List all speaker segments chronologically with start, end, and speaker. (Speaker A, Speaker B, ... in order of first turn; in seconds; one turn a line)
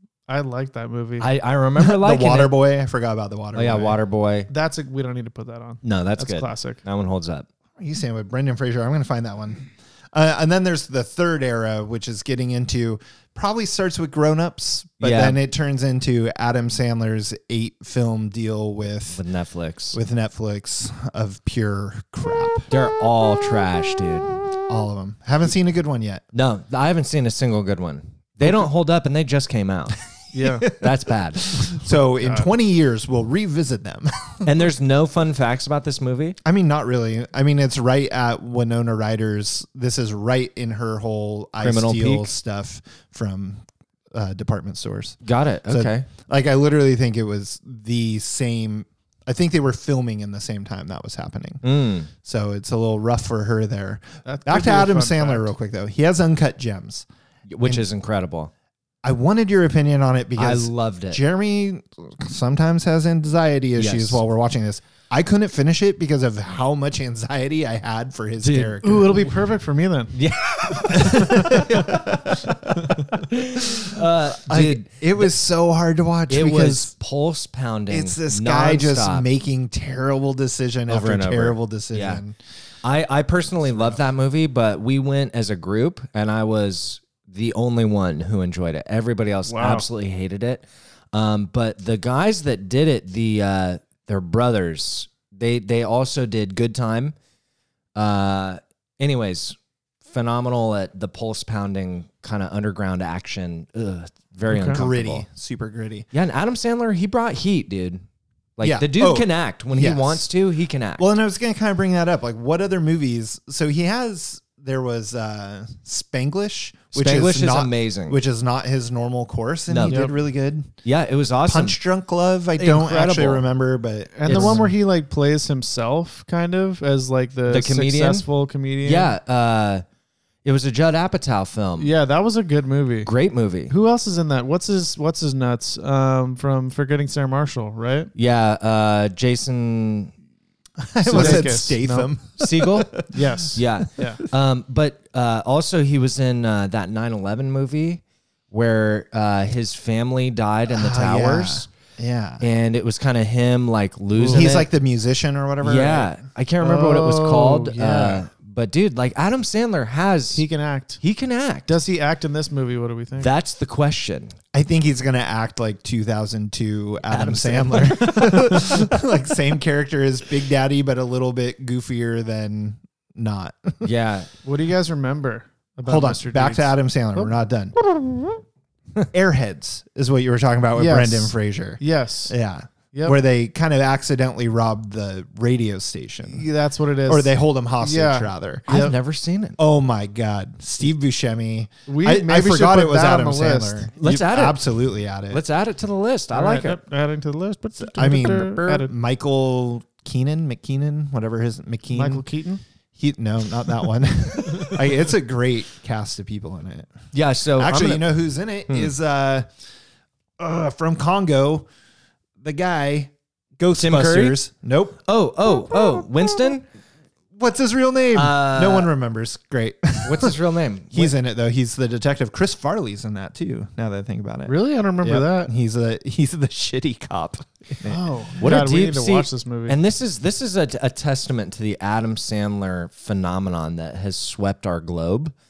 Speaker A: 0.3-1.3
Speaker B: 1.2-2.5
Speaker C: 1.8-4.0
Speaker B: 3.5-4.5
Speaker A: 4.5-6.8
Speaker B: 5.8-7.5
Speaker C: 7.8-19.2
Speaker B: 15.0-15.4
Speaker B: 19.1-20.0
Speaker C: 19.9-22.7
Speaker B: 22.7-24.3
Speaker C: 24.7-26.2
Speaker B: 26.3-30.0
Speaker A: 30.3-30.7
Speaker B: 30.8-31.5
Speaker C: 31.5-34.5
Speaker B: 34.5-36.4
Speaker C: 36.4-57.1
Speaker B: 41.6-42.3
Speaker B: 45.2-46.1
Speaker B: 51.6-52.1
Speaker A: 54.3-55.5
Speaker B: 57.5-58.5
Speaker C: 59.0-69.3
Speaker B: 60.4-61.2
Speaker B: 63.8-64.2
Speaker B: 68.4-68.7
Speaker A: 68.8-70.2
Speaker B: 70.2-72.3
Speaker C: 71.0-73.0
Speaker B: 73.2-75.3
Speaker C: 74.5-76.9
Speaker B: 76.3-79.2
Speaker C: 77.9-82.4
Speaker B: 80.9-82.2
Speaker B: 82.8-97.2
Speaker A: 89.5-89.9
Speaker B: 98.0-105.2
Speaker A: 104.5-104.8
Speaker C: 104.6-106.1
Speaker B: 106.1-108.0
Speaker B: 108.6-111.1
Speaker C: 108.6-110.3
Speaker C: 111.0-120.7
Speaker B: 117.0-118.2
Speaker B: 119.7-120.1
Speaker A: 119.9-120.2
Speaker B: 120.8-121.8
Speaker C: 121.5-124.7
Speaker A: 122.6-123.4
Speaker A: 124.2-129.1
Speaker B: 124.3-124.7
Speaker B: 127.5-128.3
Speaker B: 128.8-129.8
Speaker B: 130.4-131.9
Speaker A: 131.8-133.1
Speaker B: 133.1-133.7
Speaker A: 133.7-138.1
Speaker B: 138.2-140.1
Speaker C: 140.8-143.2
Speaker A: 141.1-142.1
Speaker B: 141.1-141.5
Speaker B: 142.4-151.7
Speaker A: 143.1-144.2
Speaker C: 150.7-152.4
Speaker B: 152.4-154.7
Speaker A: 154.2-154.5
Speaker C: 154.3-156.1
Speaker B: 155.6-160.4
Speaker A: 156.6-158.2
Speaker A: 160.3-161.0
Speaker B: 161.0-161.7
Speaker A: 161.7-163.3
Speaker B: 163.2-164.3
Speaker C: 164.5-173.9
Speaker B: 167.1-168.9
Speaker B: 173.8-174.3
Speaker A: 174.4-177.3
Speaker C: 175.8-177.8
Speaker C: 179.1-186.5
Speaker A: 180.8-182.4
Speaker A: 182.9-183.2
Speaker A: 186.3-188.9
Speaker C: 187.1-188.7
Speaker B: 188.7-189.6
Speaker C: 189.6-195.4
Speaker A: 191.9-193.9
Speaker B: 194.0-194.6
Speaker B: 195.3-196.8
Speaker A: 196.3-198.9
Speaker C: 197.8-202.3
Speaker A: 201.9-202.6
Speaker C: 203.0-206.9
Speaker B: 207.1-208.1
Speaker C: 207.6-209.5
Speaker C: 210.4-211.7
Speaker C: 212.4-215.0
Speaker B: 213.7-214.4
Speaker B: 215.1-216.7
Speaker C: 217.4-220.4
Speaker B: 218.2-218.9
Speaker B: 220.0-221.2
Speaker C: 220.9-228.0
Speaker A: 224.5-225.5
Speaker A: 227.9-229.8
Speaker B: 228.4-235.3